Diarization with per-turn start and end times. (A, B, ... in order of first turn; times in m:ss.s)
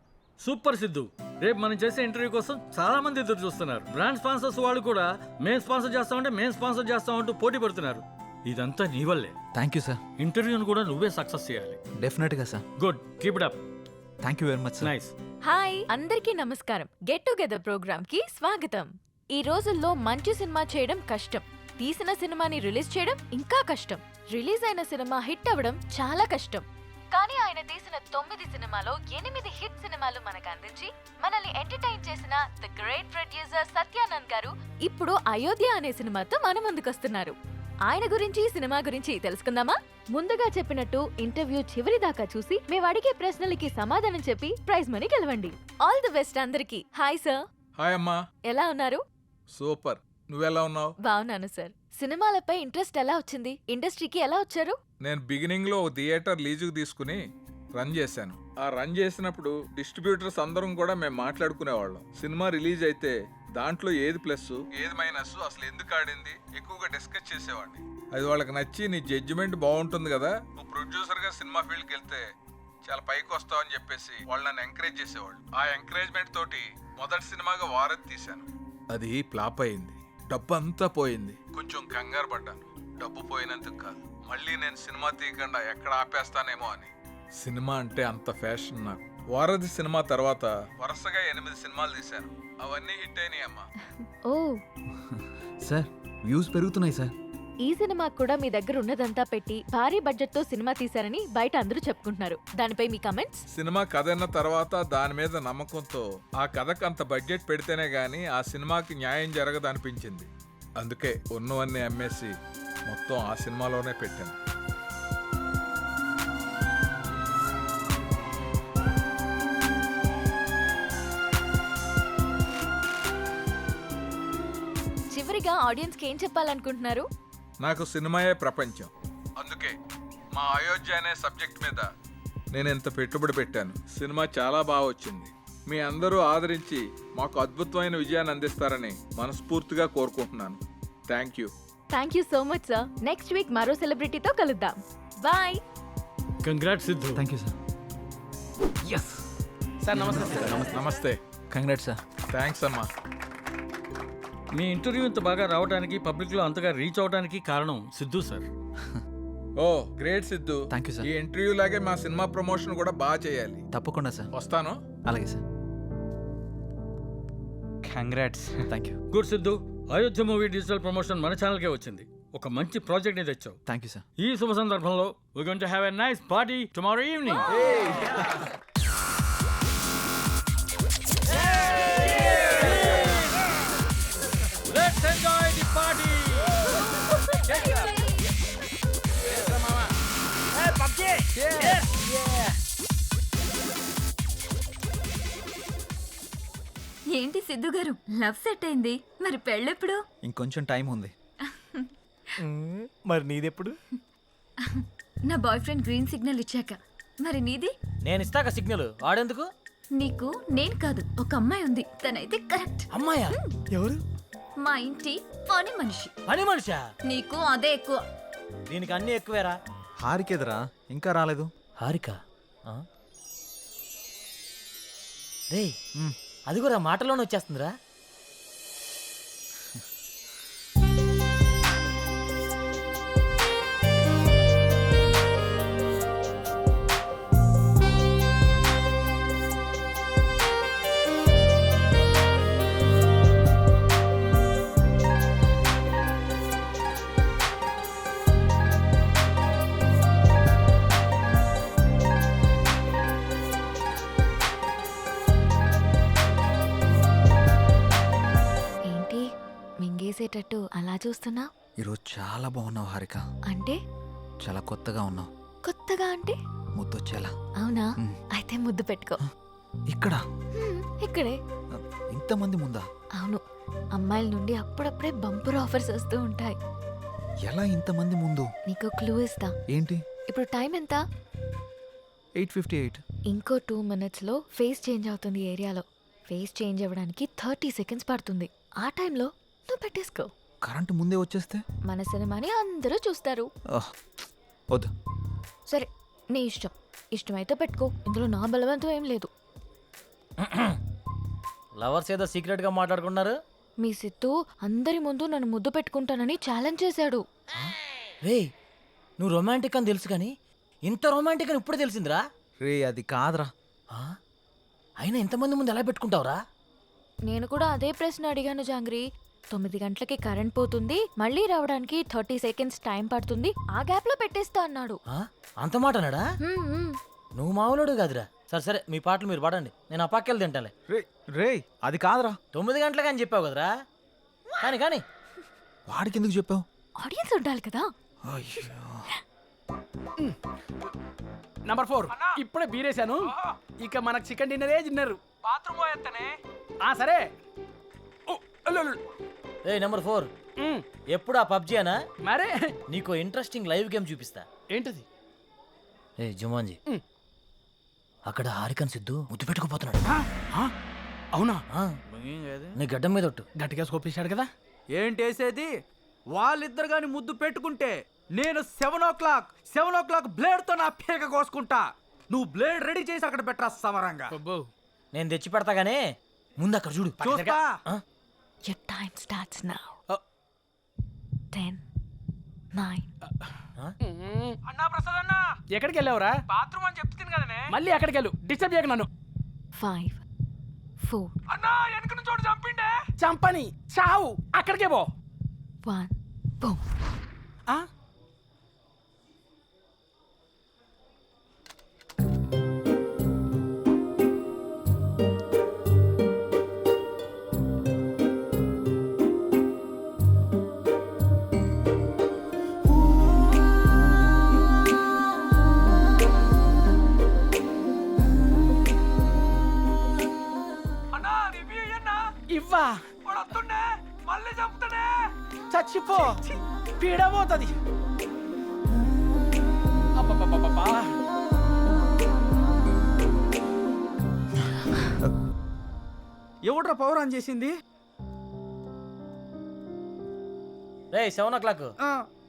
0:00.4-0:09.3 A
0:09.6-0:10.0 B
0:10.2-0:11.8 A
0:12.0-0:12.6 B
0:12.8-0:13.6 A
0:14.2-0:14.9 B
0:14.8-0:15.1 A
0:15.4-0:37.4 C
0:37.9-0:47.4 C
0:47.8-0:48.2 D
0:48.5-0:49.0 C
0:49.6-0:50.9 D
0:51.0-0:54.8 C
0:55.0-0:57.2 D
0:57.8-1:12.2 D
1:12.9-1:33.7 D
1:34.3-1:34.6 C
1:35.0-1:37.1 B
1:37.6-1:43.4 C
1:43.5-1:50.3 D
1:50.8-1:52.4 D
1:52.9-1:54.4 D
2:05.1-2:07.0 C
2:07.6-2:08.9 D
2:09.4-2:09.8 D
2:10.4-2:11.9 D
2:12.5-2:21.5 D
2:21.9-2:25.6 C
2:26.4-2:27.2 A
2:27.2-2:27.6 B
2:28.8-2:29.2 B
2:29.8-2:30.7 E
2:29.9-2:30.8 B
2:30.7-2:31.2 D
2:31.5-2:32.0 B
2:32.3-2:32.9 D
2:34.5-2:38.4 A
2:39.6-2:43.6 D
2:40.7-2:41.1 B
2:43.7-2:44.3 B
2:44.4-2:44.8 D
2:45.1-2:45.4 B
2:48.1-2:48.3 A
2:48.7-2:49.0 B
2:49.1-2:53.6 A
2:53.7-2:54.0 B
2:54.2-2:57.4 A
2:57.6-2:58.1 B
3:04.8-3:06.4 A
3:11.6-3:12.0 F
3:17.2-3:20.0 G
3:20.2-3:21.1 B
3:23.3-3:23.7 F
3:25.3-3:27.7 G
3:28.0-3:29.5 F
3:30.0-3:32.8 G
3:32.9-3:33.4 F
3:34.6-3:36.1 G
3:36.3-3:36.8 F
3:37.1-3:38.0 G
3:38.7-3:39.6 F
3:40.0-3:41.5 B
3:41.8-3:42.2 F
3:45.5-3:45.8 F
3:46.5-3:47.7 F
4:18.9-4:19.2 C
4:19.8-4:21.5 C
4:21.8-4:23.2 B
4:23.5-4:23.8 C
4:24.4-4:25.3 B
4:25.7-4:26.4 C
4:26.8-4:27.3 B
4:27.6-4:29.2 C
4:29.9-4:30.2 B
4:30.6-4:31.4 C
4:31.8-4:32.8 B
4:34.0-4:36.6 C
4:37.5-4:38.5 B
4:38.7-4:39.5 C
4:39.7-4:40.0 B
4:40.3-4:41.0 C
4:42.4-4:43.0 B
4:43.3-4:50.3 C
4:50.6-4:51.6 B
4:51.9-4:53.5 C
4:55.7-4:59.3 C
5:00.4-5:00.8 F
5:01.8-5:03.3 F
5:03.8-5:07.2 C
5:09.2-5:10.3 F
5:10.8-5:12.2 F
5:12.6-5:13.5 B
5:15.0-5:16.4 F
5:17.3-5:25.0 C
5:25.1-5:26.3 F
5:26.4-5:27.0 C
5:27.4-5:30.7 F
5:30.9-5:32.4 B
5:32.5-5:33.7 F
5:34.6-5:35.0 F
5:35.9-5:36.6 B
5:37.0-5:37.9 C
5:38.3-5:39.1 B
5:41.6-5:46.3 E
5:46.8-5:47.3 E
5:48.3-5:49.0 E
5:49.6-5:50.3 F
5:50.6-5:50.9 E
5:51.1-5:52.0 F
5:52.2-5:52.7 E
5:52.9-5:54.5 F
5:54.7-5:55.0 E
5:56.2-5:56.8 F
5:58.3-6:00.0 F
6:01.3-6:01.6 E
6:02.7-6:03.4 F
6:03.6-6:04.5 E
6:05.0-6:05.7 H
6:06.4-6:11.8 H
6:12.3-6:14.2 H
6:14.3-6:14.7 E
6:15.1-6:16.0 F
6:16.6-6:18.0 F
6:17.2-6:17.8 H
6:18.7-6:20.0 C
6:21.5-6:21.8 C
6:22.7-6:23.1 C
6:24.0-6:24.6 E
6:25.7-6:29.1 E
6:29.8-6:30.2 C
6:31.0-6:31.3 C
6:31.7-6:35.1 E
6:35.8-6:36.8 C
7:02.5-7:03.5 E
7:04.4-7:04.8 E
7:05.7-7:07.7 E
7:10.2-7:11.1 E
7:16.7-7:17.7 H
7:21.1-7:21.9 F